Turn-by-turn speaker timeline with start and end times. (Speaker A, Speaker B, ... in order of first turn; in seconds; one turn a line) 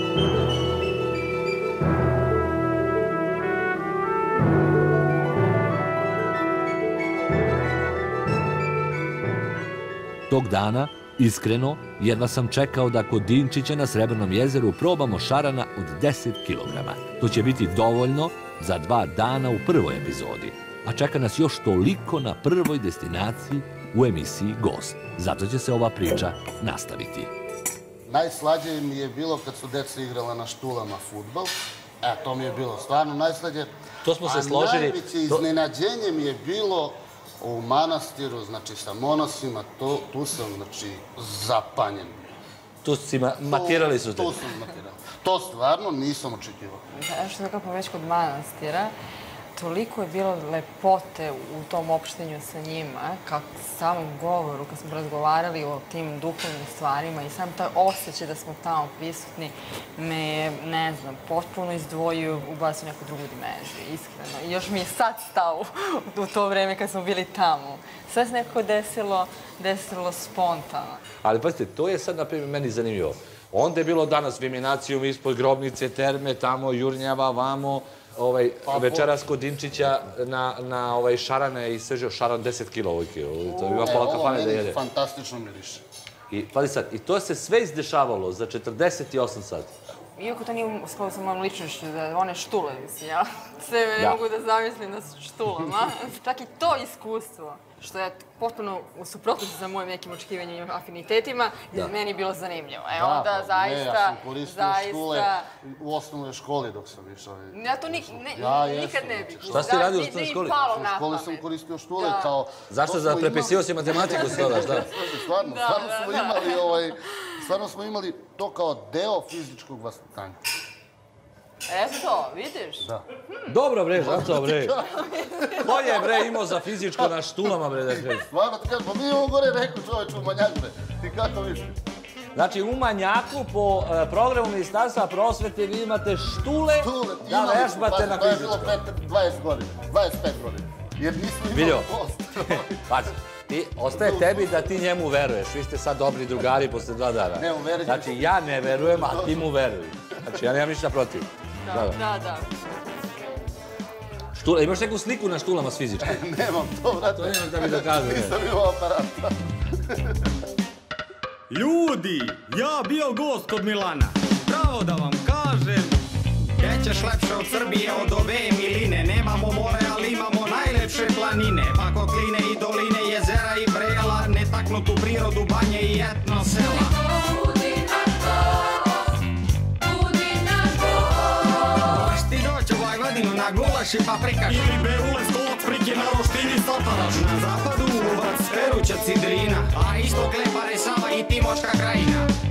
Speaker A: 10.3-27.3
Speaker B: 28.1-42.3
Speaker C: 34.0-35.5
Speaker C: 42.8-44.4
Speaker B: 43.4-46.8
Speaker D: 46.9-48.9
Speaker D: 49.6-71.0
Speaker C: 71.2-84.8
Speaker B: 78.7-79.2
Speaker B: 83.5-85.8
Speaker C: 86.3-89.7
Speaker D: 90.2-105.5
Speaker B: 102.9-109.9
Speaker D: 107.5-112.3
Speaker C: 109.5-110.6
Speaker B: 110.6-120.4
Speaker C: 112.7-114.9
Speaker D: 114.0-116.8
Speaker D: 121.7-122.9
Speaker C: 123.5-124.8
Speaker B: 124.0-126.1
Speaker C: 125.5-128.3
Speaker B: 127.0-131.7
Speaker C: 132.3-138.8
Speaker B: 136.8-142.9
Speaker C: 141.5-141.9
Speaker C: 142.5-152.0
Speaker B: 143.9-144.5
Speaker B: 147.4-149.5
Speaker D: 151.6-152.5
Speaker C: 154.3-156.2
Speaker B: 156.0-159.4
Speaker C: 157.0-158.4
Speaker E: 161.5-166.0
Speaker E: 166.6-176.9
Speaker D: 176.7-179.2
Speaker D: 179.8-182.0
Speaker E: 181.8-192.3